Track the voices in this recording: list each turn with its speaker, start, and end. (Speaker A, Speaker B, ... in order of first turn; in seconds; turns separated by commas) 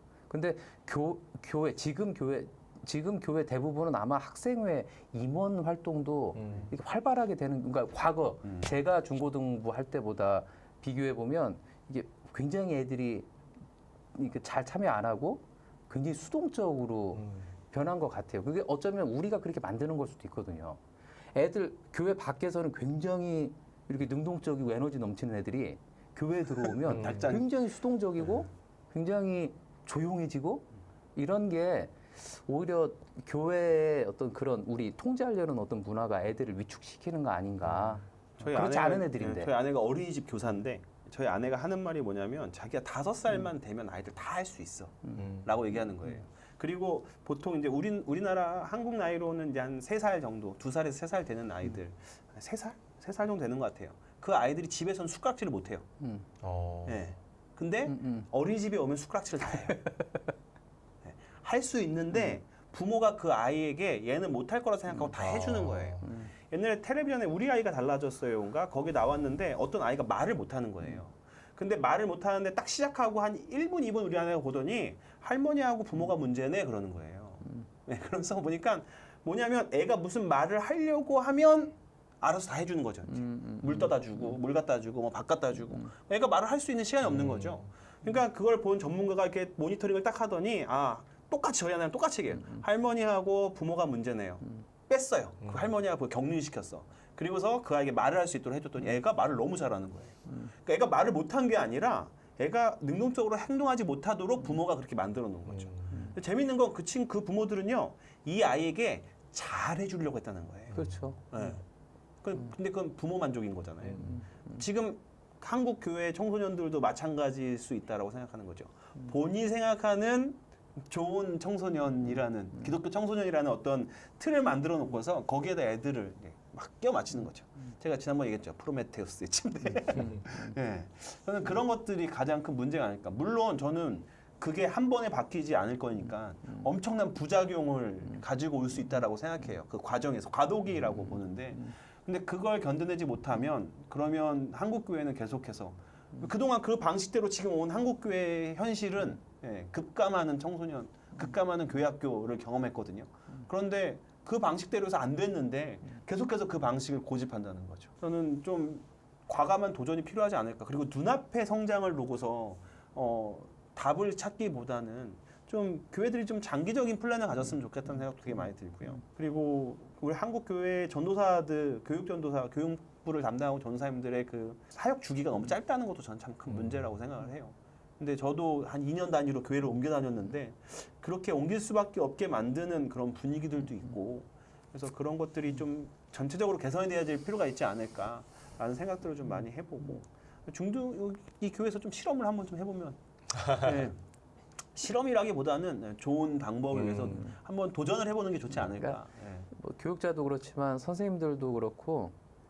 Speaker A: 0.3-13.3, Speaker B: 8.4-8.7, Speaker A: 14.2-20.8, Speaker C: 17.2-17.5, Speaker A: 21.3-39.5, Speaker B: 26.9-27.4, Speaker C: 26.9-27.3, Speaker B: 38.4-55.9, Speaker C: 45.2-45.5, Speaker C: 56.4-57.1, Speaker B: 56.9-59.9, Speaker A: 57.9-58.2, Speaker B: 61.0-110.8, Speaker C: 65.2-66.0, Speaker C: 87.0-87.7, Speaker C: 95.4-95.7, Speaker C: 105.5-105.9, Speaker A: 110.7-111.2, Speaker B: 111.3-111.6, Speaker B: 112.2-194.0, Speaker B: 194.8-199.5, Speaker A: 199.5-202.1